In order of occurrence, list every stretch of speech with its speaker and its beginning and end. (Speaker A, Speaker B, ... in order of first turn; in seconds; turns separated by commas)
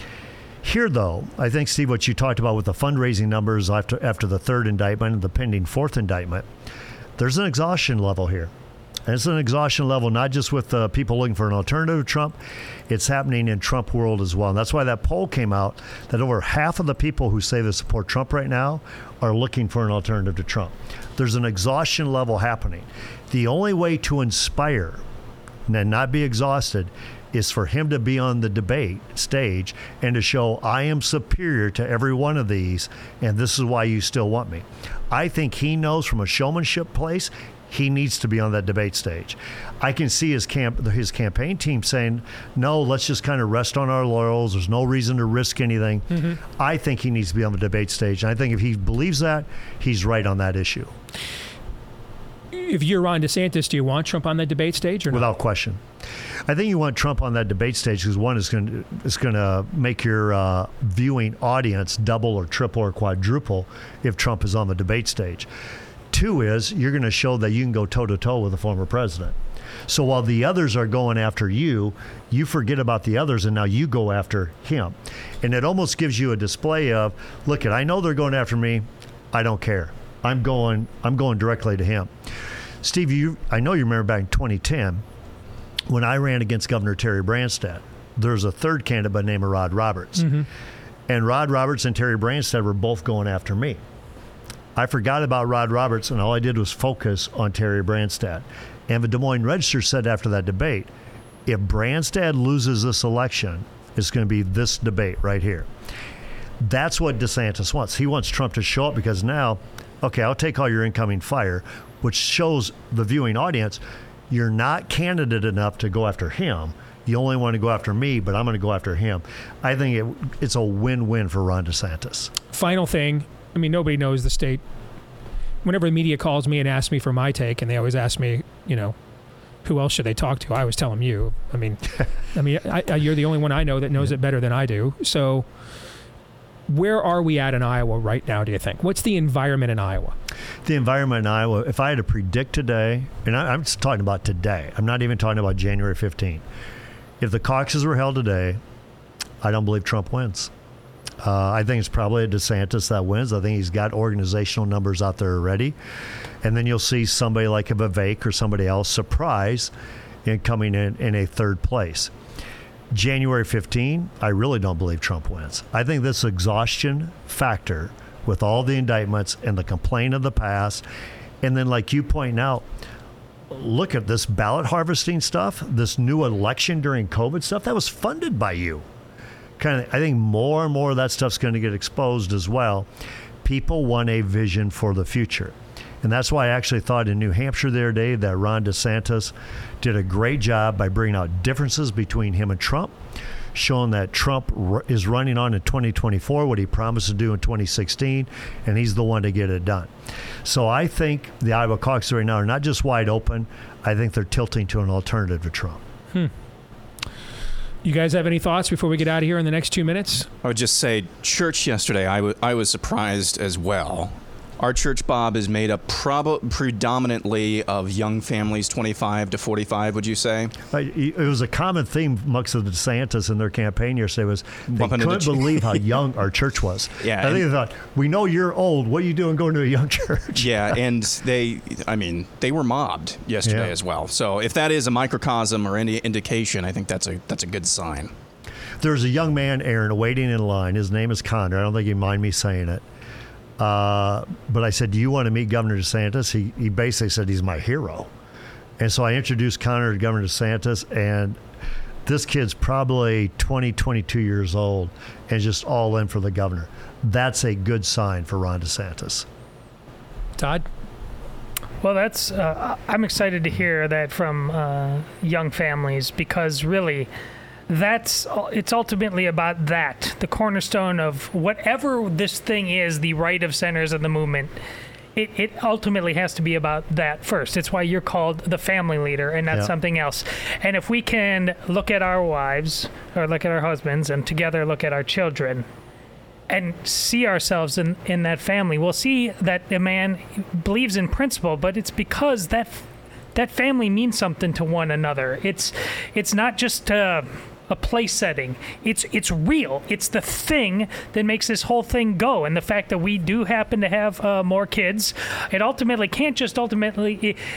Speaker A: 0.6-6.5, Speaker A: 7.2-8.5, Speaker A: 9.1-12.4, Speaker A: 12.9-25.0, Speaker A: 25.7-50.9, Speaker B: 52.5-55.3, Speaker A: 55.1-55.8, Speaker A: 56.5-65.5, Speaker A: 66.1-69.3, Speaker A: 69.9-82.1, Speaker A: 82.8-85.0, Speaker A: 85.9-90.4, Speaker A: 91.1-93.8, Speaker A: 94.8-100.9, Speaker A: 101.5-105.7, Speaker A: 106.6-122.3, Speaker B: 122.5-124.6, Speaker B: 125.6-128.9, Speaker B: 129.6-135.4, Speaker B: 136.7-140.1, Speaker A: 140.6-146.4, Speaker A: 147.2-148.6, Speaker A: 149.4-150.5, Speaker A: 151.2-155.8, Speaker A: 156.4-159.7, Speaker A: 160.2-162.1, Speaker A: 162.9-170.8, Speaker A: 171.4-172.6, Speaker A: 173.5-178.8, Speaker A: 179.6-182.9, Speaker A: 183.4-192.9, Speaker A: 193.5-199.9, Speaker A: 200.4-205.8, Speaker B: 207.8-210.3, Speaker C: 210.4-220.5, Speaker A: 220.7-230.5, Speaker C: 224.7-225.9, Speaker C: 227.0-227.4, Speaker C: 230.3-238.1, Speaker A: 233.4-233.7, Speaker A: 238.8-242.8, Speaker A: 243.6-248.1, Speaker A: 248.8-251.4, Speaker A: 252.1-259.2, Speaker B: 260.4-260.6, Speaker D: 261.8-267.1, Speaker D: 267.7-274.5, Speaker D: 275.1-285.6, Speaker D: 286.5-307.4